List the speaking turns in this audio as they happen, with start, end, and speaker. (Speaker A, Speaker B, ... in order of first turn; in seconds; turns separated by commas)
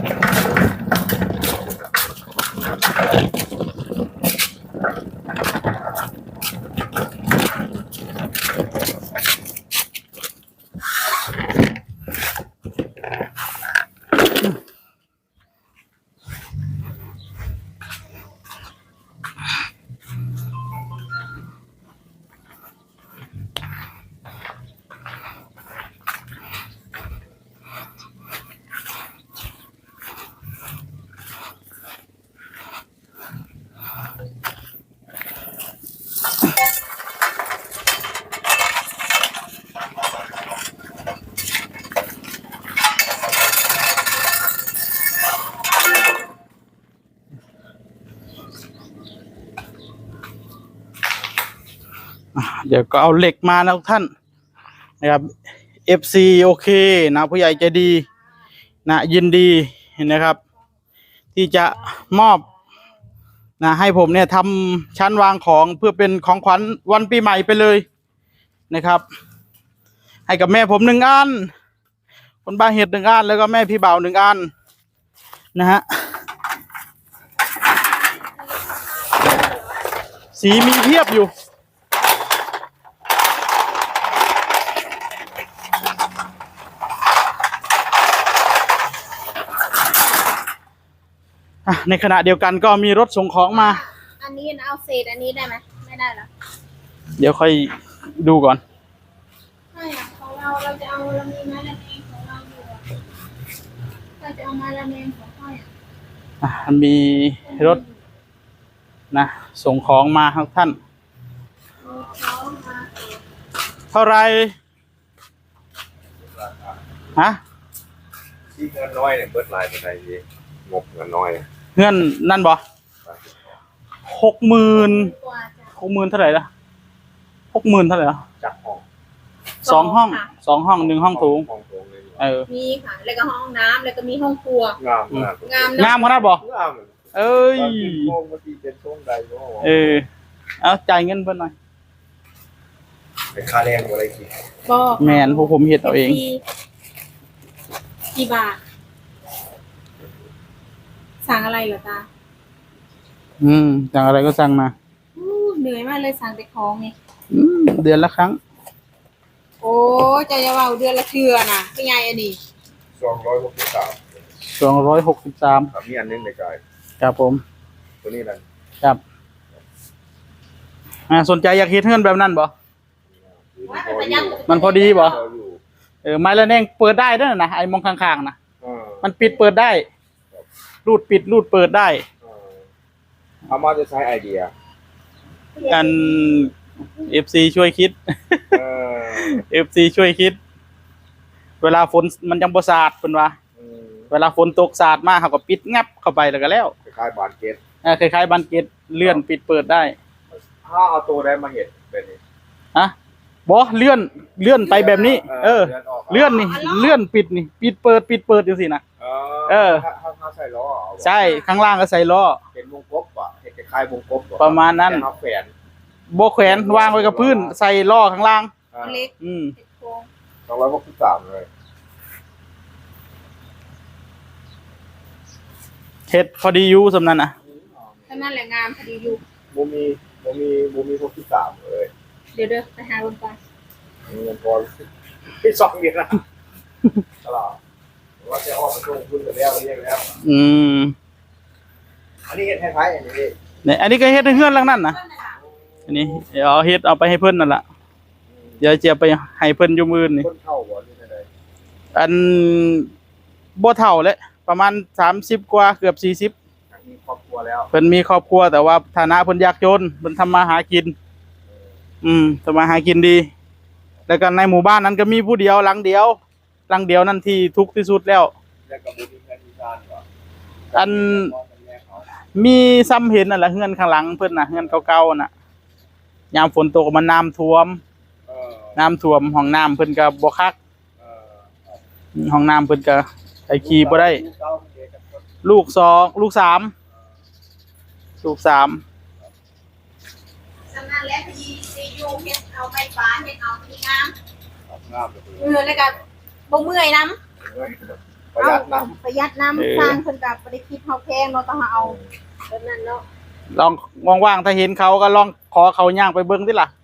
Speaker A: 52.4-54.1, Speaker A: 55.0-55.3, Speaker A: 55.9-58.1, Speaker A: 58.9-60.4, Speaker A: 61.4-62.5, Speaker A: 63.6-67.8, Speaker A: 68.7-69.0, Speaker A: 70.3-71.5, Speaker A: 72.5-74.5, Speaker A: 75.5-75.8, Speaker A: 80.3-81.3, Speaker A: 91.7-93.8, Speaker B: 93.5-96.3, Speaker A: 97.2-98.6, Speaker B: 99.7-102.9, Speaker B: 104.2-105.7, Speaker A: 106.4-107.8, Speaker B: 107.5-107.9, Speaker A: 109.1-110.8, Speaker B: 111.8-113.2, Speaker A: 113.9-114.5, Speaker C: 116.2-116.8, Speaker C: 118.5-121.5, Speaker A: 121.8-122.6, Speaker C: 123.0-123.3, Speaker A: 124.1-125.1, Speaker B: 124.7-125.7, Speaker A: 125.8-126.5, Speaker A: 127.5-128.2, Speaker C: 128.4-128.8, Speaker B: 129.6-130.3, Speaker A: 129.6-131.5, Speaker C: 130.8-132.3, Speaker A: 132.2-132.5, Speaker B: 132.5-134.8, Speaker C: 134.8-137.0, Speaker B: 135.4-136.1, Speaker A: 135.8-136.4, Speaker A: 137.1-138.1, Speaker C: 137.5-140.0, Speaker A: 139.6-140.1, Speaker A: 140.6-141.5, Speaker C: 143.3-144.3, Speaker B: 144.7-146.4, Speaker A: 145.0-146.2, Speaker B: 148.1-148.6, Speaker B: 151.2-152.1, Speaker A: 153.4-154.7, Speaker B: 155.2-156.9, Speaker A: 157.3-158.4, Speaker B: 159.6-162.4, Speaker C: 163.0-164.1, Speaker A: 164.5-165.7, Speaker C: 165.7-166.6, Speaker A: 167.0-167.4, Speaker C: 168.0-168.4, Speaker A: 171.1-172.5, Speaker C: 173.1-175.6, Speaker B: 173.7-175.2, Speaker A: 174.5-175.2, Speaker A: 176.0-178.4, Speaker C: 178.6-179.1, Speaker A: 179.0-179.8, Speaker A: 180.8-182.0, Speaker C: 182.2-182.7, Speaker C: 183.5-184.5, Speaker B: 185.6-186.3, Speaker A: 185.7-188.6, Speaker C: 188.5-189.4, Speaker A: 189.2-190.4, Speaker A: 191.6-193.3, Speaker C: 193.6-194.1, Speaker A: 194.1-196.7, Speaker C: 196.9-197.6, Speaker A: 197.8-199.9, Speaker C: 200.5-202.2, Speaker A: 203.5-208.8, Speaker C: 204.7-206.4, Speaker B: 206.1-207.0, Speaker C: 209.0-211.2, Speaker A: 209.5-209.8, Speaker A: 211.0-212.4, Speaker B: 211.2-211.4, Speaker C: 212.5-215.5, Speaker A: 214.4-215.1, Speaker A: 216.1-218.5, Speaker C: 216.4-217.6, Speaker C: 218.7-219.1, Speaker B: 218.8-220.1, Speaker A: 219.2-219.6, Speaker C: 220.5-221.5, Speaker A: 226.1-227.3, Speaker C: 227.4-228.3, Speaker B: 228.1-229.2, Speaker C: 229.5-231.9, Speaker B: 232.3-233.4, Speaker C: 234.1-234.8, Speaker C: 235.4-236.2, Speaker C: 237.2-237.6, Speaker C: 238.2-240.1, Speaker A: 240.2-241.0, Speaker C: 242.3-243.3, Speaker A: 243.7-245.0, Speaker A: 245.9-247.6, Speaker A: 248.6-250.3, Speaker C: 250.2-251.3, Speaker A: 251.9-252.9, Speaker A: 253.6-256.3, Speaker C: 256.7-257.7, Speaker A: 257.7-260.9, Speaker A: 262.0-263.3, Speaker A: 264.1-268.3, Speaker C: 268.7-270.0, Speaker C: 270.7-272.1, Speaker A: 270.7-271.3, Speaker A: 272.4-275.3, Speaker A: 276.3-277.8, Speaker C: 278.3-278.8, Speaker A: 278.8-280.6, Speaker C: 281.0-281.8, Speaker A: 282.2-284.2, Speaker C: 283.6-285.2, Speaker A: 285.4-286.7, Speaker A: 288.2-288.8, Speaker B: 290.7-294.1, Speaker C: 294.7-296.1, Speaker B: 295.4-295.9, Speaker B: 296.5-297.2, Speaker C: 297.4-298.9, Speaker B: 298.4-303.1, Speaker A: 299.6-300.0, Speaker C: 301.8-302.1, Speaker A: 303.5-306.7